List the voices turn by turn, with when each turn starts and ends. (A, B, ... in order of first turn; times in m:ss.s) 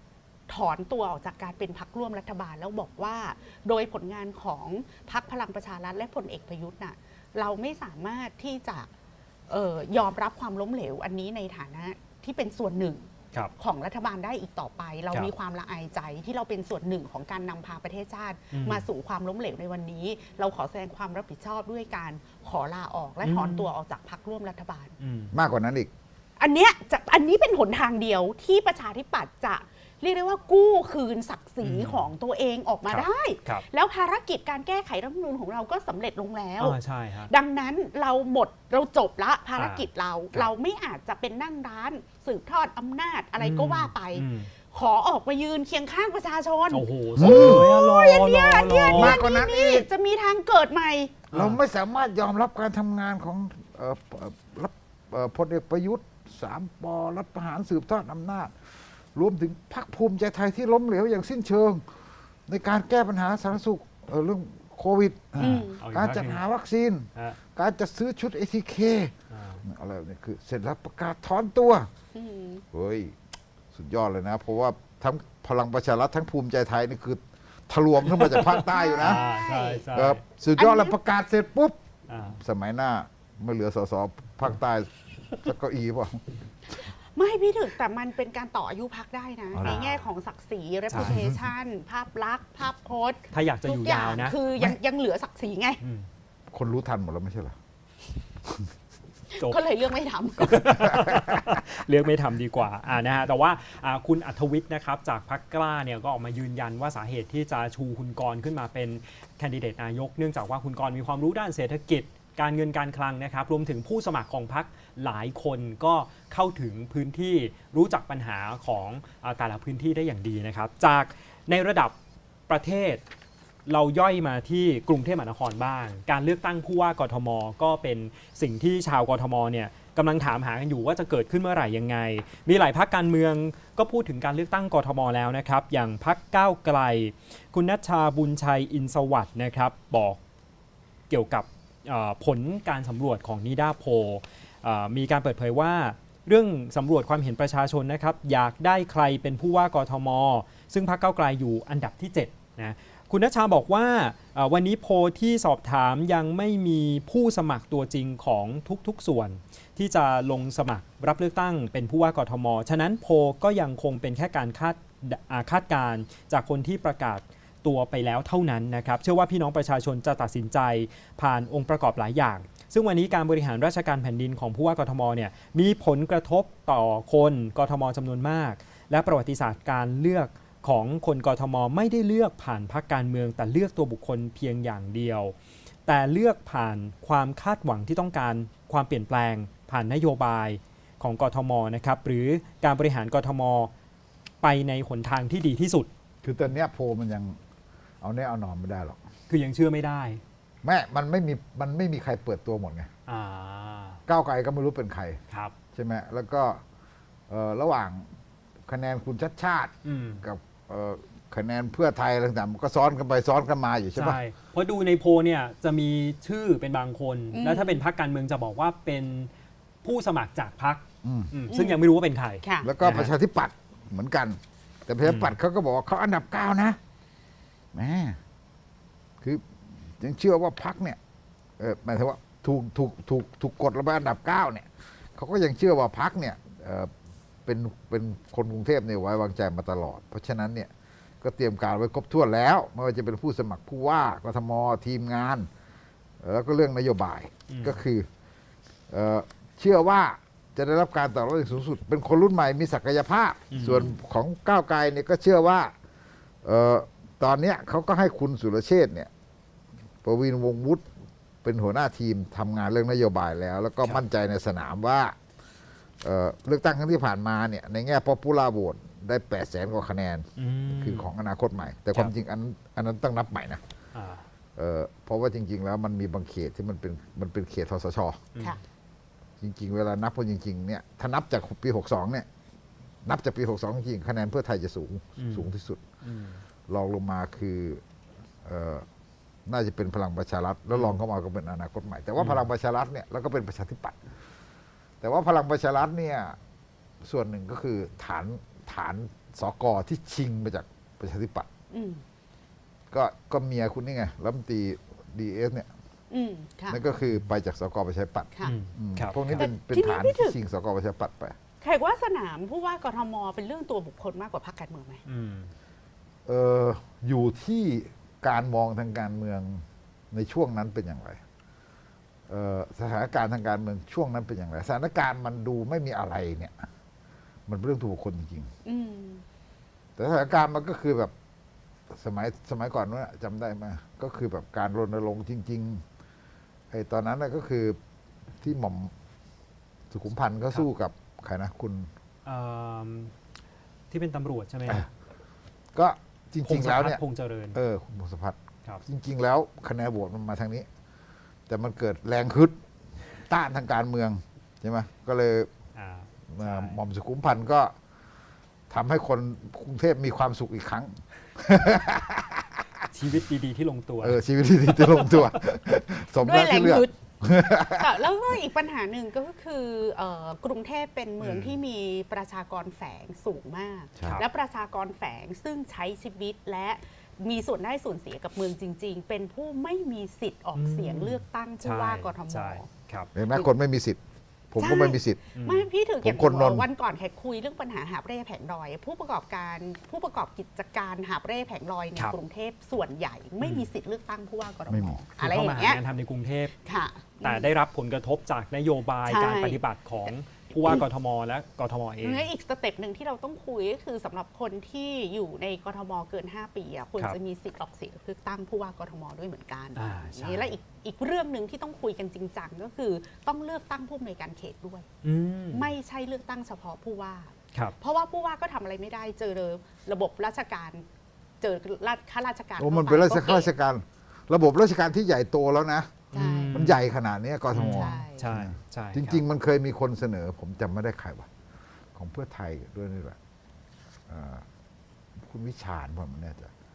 0:00.5-0:08.9 A
0:09.5-0:24.9 A
0:18.5-0:18.8 B
0:23.2-0:23.7 B
0:25.0-0:25.4 B
0:25.3-0:25.9 C
0:26.4-0:36.8 A
0:31.6-0:32.1 B
0:32.9-0:33.6 B
0:36.6-0:37.3 B
0:37.3-0:51.2 A
0:39.6-0:40.5 B
0:43.4-0:44.5 B
0:46.7-0:49.2 B
0:47.2-0:47.7 C
0:48.9-0:49.9 C
0:51.3-0:51.6 B
0:51.3-0:58.6 C
0:59.2-1:01.9 C
1:02.5-1:11.9 C
1:05.4-1:06.4 B
1:05.4-1:05.8 A
1:09.3-1:09.6 B
1:12.1-1:12.6 A
1:12.7-1:13.2 C
1:13.7-1:19.2 C
1:18.1-1:20.2 B
1:18.7-1:19.8 A
1:19.9-1:21.8 C
1:20.6-1:21.0 A
1:22.1-1:22.4 B
1:22.4-1:26.2 C
1:27.2-1:35.8 A
1:29.5-1:29.8 C
1:29.6-1:30.0 B
1:30.9-1:31.2 B
1:30.9-1:31.4 C
1:33.3-1:34.4 B
1:35.8-1:36.1 B
1:36.5-1:37.6 C
1:39.3-1:40.8 A
1:40.4-2:02.0 B
1:40.9-1:41.2 C
2:02.5-2:03.0 B
2:03.7-2:20.2 B
2:21.1-3:05.3 B
3:05.9-3:13.7 B
3:14.4-3:15.9 B
3:16.2-3:17.4 C
3:18.0-3:19.0 C
3:19.3-3:20.2 B
3:20.6-3:22.9 C
3:23.1-3:24.0 B
3:24.1-3:25.2 C
3:25.7-3:26.6 C
3:27.3-3:28.1 C
3:28.7-3:34.2 C
3:29.8-3:30.2 B
3:34.0-3:39.3 B
3:37.3-3:37.8 A
3:39.8-3:43.1 B
3:41.0-3:41.3 C
3:41.5-3:41.8 A
3:42.4-3:42.7 A
3:42.6-3:46.8 C
3:45.0-3:45.4 B
3:47.7-3:48.2 C
3:49.2-3:49.5 C
3:50.0-3:51.0 C
3:51.6-3:56.9 C
3:57.5-4:05.5 C
4:06.2-4:08.1 C
4:07.5-4:07.8 B
4:08.9-4:15.7 C
4:13.5-4:13.9 B
4:16.4-4:19.1 C
4:20.0-4:20.9 C
4:21.4-4:25.2 C
4:26.0-4:33.6 C
4:30.4-4:31.1 B
4:33.9-4:34.2 B
4:34.6-4:38.2 C
4:39.4-4:42.3 C
4:43.0-4:45.8 C
4:45.2-4:45.5 B
4:46.0-4:46.4 B
4:46.7-4:47.8 C
4:48.4-4:48.9 C
4:49.5-4:54.0 C
4:50.7-4:51.0 B
4:52.2-4:52.5 B
4:55.0-4:56.4 C
4:57.0-5:01.5 C
5:01.7-5:02.0 A
5:02.9-5:05.7 C
5:06.1-5:06.8 A
5:06.7-5:11.4 C
5:08.4-5:09.5 B
5:09.3-5:10.4 A
5:11.6-5:15.0 A
5:15.1-5:15.5 B
5:16.3-5:21.2 C
5:22.3-5:26.7 C
5:27.5-5:28.5 C
5:28.6-5:29.2 A
5:30.0-5:31.1 C
5:31.9-5:35.8 C
5:36.7-5:37.8 C
5:38.4-5:38.9 C
5:39.9-5:41.9 C
5:42.2-5:43.1 B
5:43.9-5:44.8 B
5:45.8-5:47.0 C
5:46.4-5:47.6 B
5:47.5-5:50.7 C
5:51.5-5:52.6 C
5:53.2-5:55.5 C
5:55.8-5:56.8 B
5:56.3-5:57.7 C
5:58.7-6:02.6 C
6:02.9-6:05.3 B
6:04.0-6:08.0 C
6:06.2-6:07.0 A
6:07.6-6:22.7 A
6:11.2-6:11.6 B
6:14.0-6:14.2 C
6:20.6-6:23.1 B
6:23.2-6:25.2 C
6:24.6-6:35.8 A
6:25.4-6:25.7 B
6:26.0-6:26.7 C
6:33.4-6:33.7 B
6:34.7-6:35.0 C
6:35.2-6:36.5 B
6:36.6-6:37.5 A
6:37.2-6:42.3 B
6:39.1-6:39.6 A
6:42.0-6:54.9 A
6:49.8-6:50.5 B
6:55.0-6:55.7 B
6:55.5-7:00.9 A
7:01.4-7:03.5 A
7:02.6-7:06.0 C
7:06.1-7:06.8 B
7:06.1-7:06.7 A
7:06.5-7:11.3 C
7:07.5-7:09.2 B
7:07.6-7:08.3 A
7:11.9-7:13.2 C
7:14.1-7:14.4 C
7:15.2-7:16.5 C